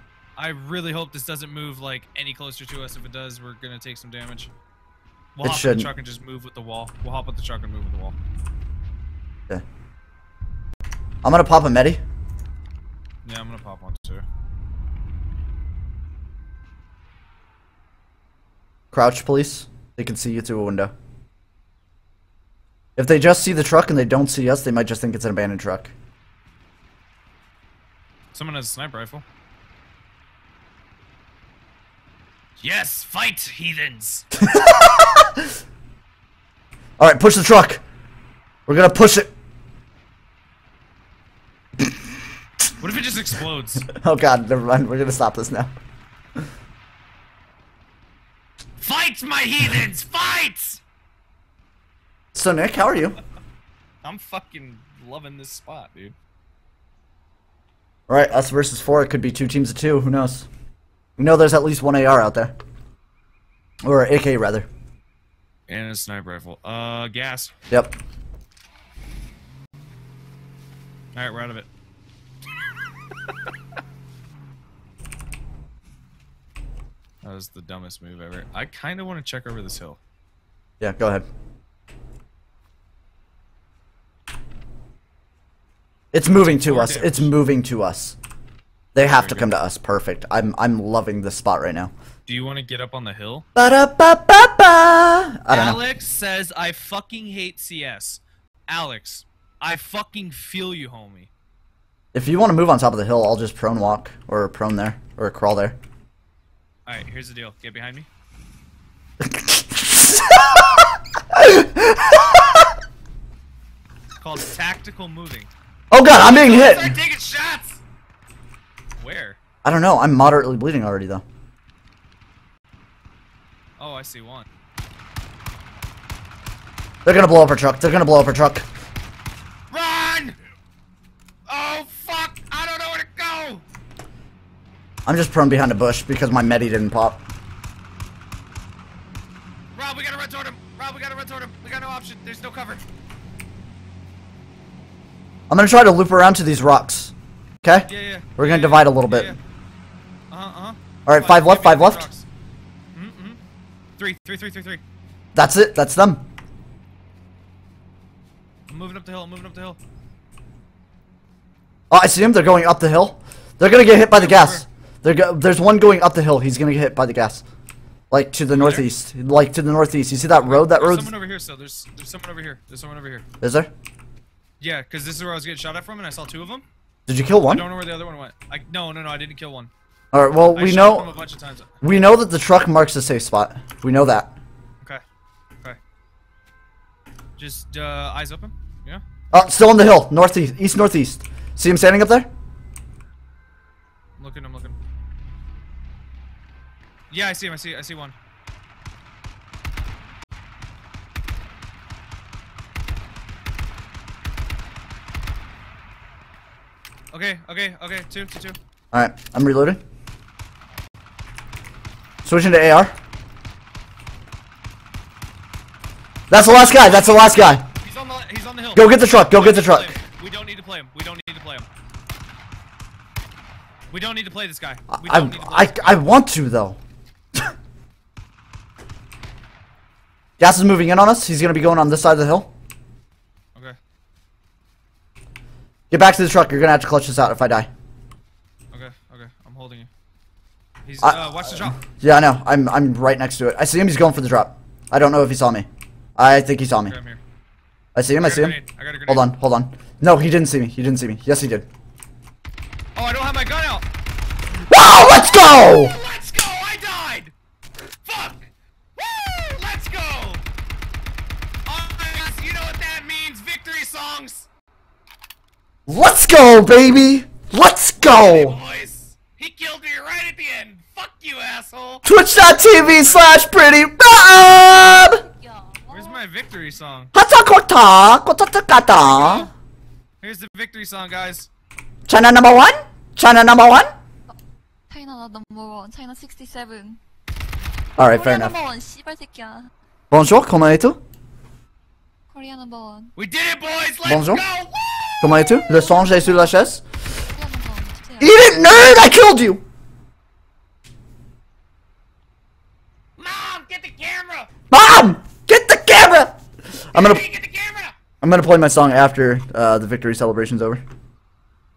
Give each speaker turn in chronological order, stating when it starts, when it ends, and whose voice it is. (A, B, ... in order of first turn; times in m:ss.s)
0:00.4-0:04.5 A
0:05.4-0:08.2 A
0:05.4-0:05.9 B
0:11.2-0:12.0 B
0:13.2-0:14.2 A
0:18.9-0:20.9 B
0:23.0-0:25.9 B
0:28.3-0:29.2 A
0:32.6-0:34.3 A
0:34.4-0:35.4 B
0:37.0-0:37.8 B
0:38.7-0:39.3 B
0:42.8-0:43.9 A
0:43.9-0:45.7 B
0:48.8-0:50.8 A
0:52.3-0:53.2 B
0:54.0-0:56.2 A
0:58.1-1:00.5 B
1:01.2-1:02.5 B
1:03.8-1:04.7 B
1:05.7-1:07.5 A
1:07.7-1:08.0 B
1:11.1-1:11.7 A
1:17.2-1:20.0 A
1:20.8-1:21.2 B
1:26.1-1:28.2 B
1:26.4-1:27.3 A
1:29.0-1:31.9 B
1:29.0-1:29.5 A
1:32.3-1:33.5 A
1:33.6-1:35.8 B
1:35.5-1:41.3 A
1:42.1-1:45.8 B
1:46.9-1:48.1 A
1:49.2-1:52.7 B
1:54.2-1:55.5 A
1:55.9-1:57.0 B
1:56.1-1:57.8 A
1:59.0-1:59.4 A
1:59.6-2:01.2 B
2:03.8-2:04.5 A
2:07.0-2:08.7 B
2:09.7-2:10.4 A
2:11.5-2:13.6 A
2:15.1-2:17.2 B
2:19.8-2:22.8 A
2:25.5-2:29.4 B
2:27.9-2:29.4 A
2:30.3-2:32.3 A
2:31.1-2:32.1 B
2:32.9-2:33.4 A
2:34.0-2:34.8 A
2:35.4-2:36.2 B
2:38.7-2:39.8 A
2:41.9-2:47.4 B
2:44.1-2:44.7 A
2:48.1-2:51.2 B
2:48.5-2:48.9 A
2:50.4-2:53.2 A
2:53.4-2:53.7 B
2:54.6-2:56.6 A
2:57.1-2:57.7 B
2:57.4-2:59.7 A
3:00.1-3:01.1 B
3:00.5-3:01.7 A
3:01.8-3:04.3 B
3:07.4-3:09.0 A
3:09.3-3:12.3 B
3:14.2-3:14.8 A
3:17.1-3:18.2 A
3:27.1-3:28.6 A
3:28.9-3:29.8 B
3:32.2-3:32.9 B
3:36.3-3:37.6 B
3:36.3-3:41.7 A
3:38.7-3:40.0 B
3:43.9-3:46.0 A
3:44.9-3:46.8 B
3:50.4-3:52.5 B
3:55.9-3:57.7 B
3:58.7-3:59.9 A
4:00.8-4:01.8 A
4:01.0-4:07.0 B
4:06.8-4:07.2 A
4:08.0-4:11.7 B
4:08.2-4:09.3 A
4:13.0-4:13.8 A
4:14.7-4:16.0 B
4:15.0-4:17.3 A
4:18.0-4:20.4 A
4:21.7-4:24.5 A
4:25.9-4:28.6 B
4:28.0-4:33.3 A
4:32.0-4:35.2 B
4:34.9-4:36.2 C
4:35.9-4:37.1 A
4:37.1-4:39.5 B
4:39.1-4:39.5 A
4:40.2-4:41.5 A
4:42.1-4:43.9 B
4:44.9-4:47.0 C
4:48.0-4:48.6 B
4:48.0-4:49.7 C
4:50.1-4:51.0 B
4:52.3-4:53.1 C
4:53.2-4:55.3 A
4:54.0-4:54.4 B
4:55.2-4:56.8 B
4:55.5-4:56.6 C
4:57.2-4:58.4 C
4:58.2-4:59.6 B
5:03.2-5:04.5 A
5:04.7-5:06.3 B
5:06.9-5:07.2 B
5:06.9-5:08.0 A
5:08.2-5:10.8 B